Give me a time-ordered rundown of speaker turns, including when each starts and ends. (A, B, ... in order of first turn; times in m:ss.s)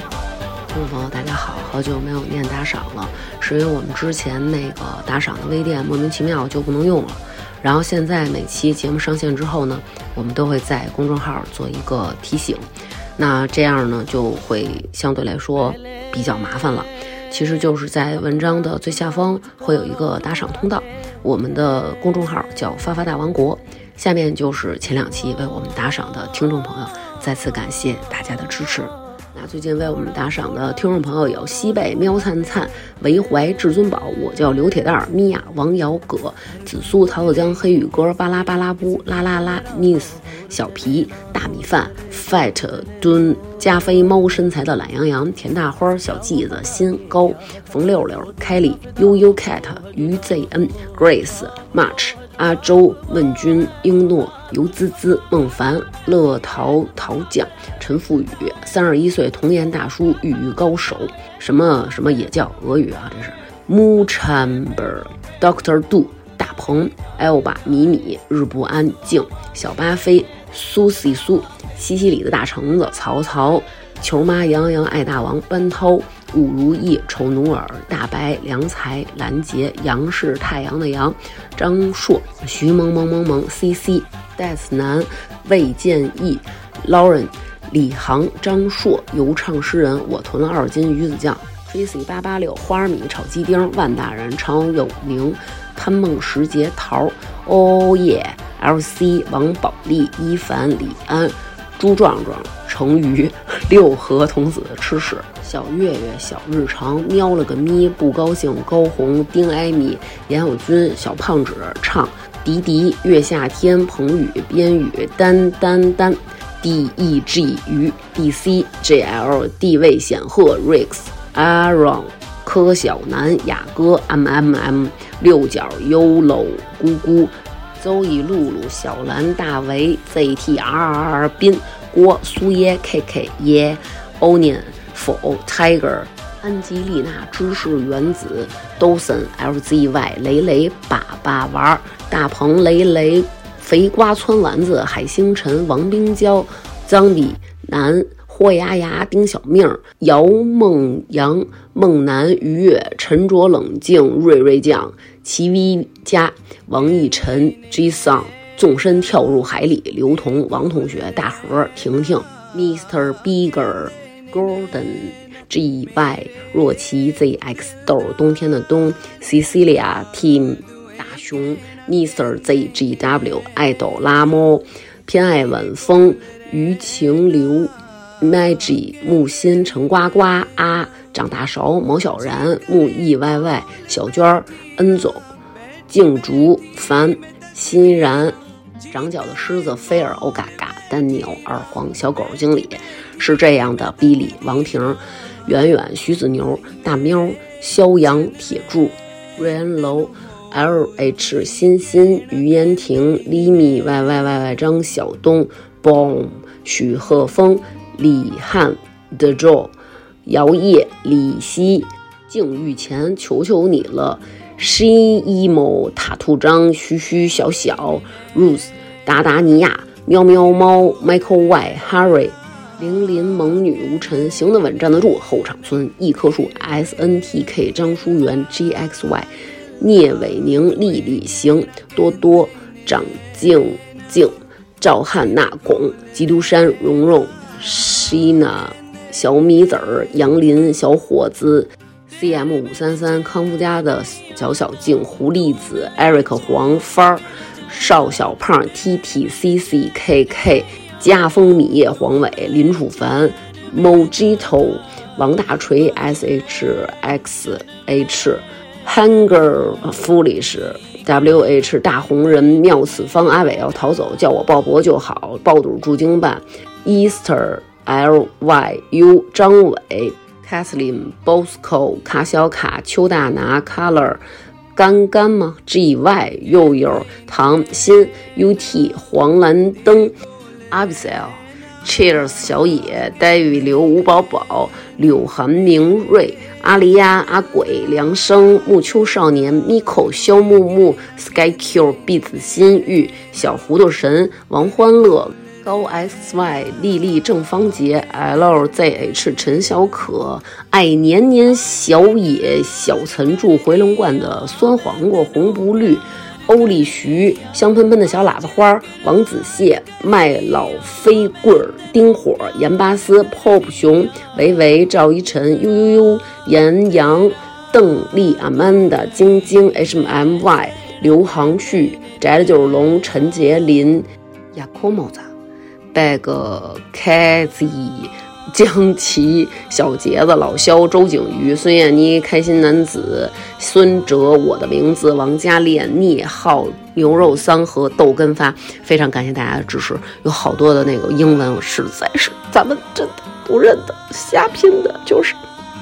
0:00.7-3:05.3 A
3:05.9-3:08.4 A
3:08.9-4:34.2 A
4:34.8-4:40.1 A
4:40.7-5:25.3 A
5:25.9-5:45.4 A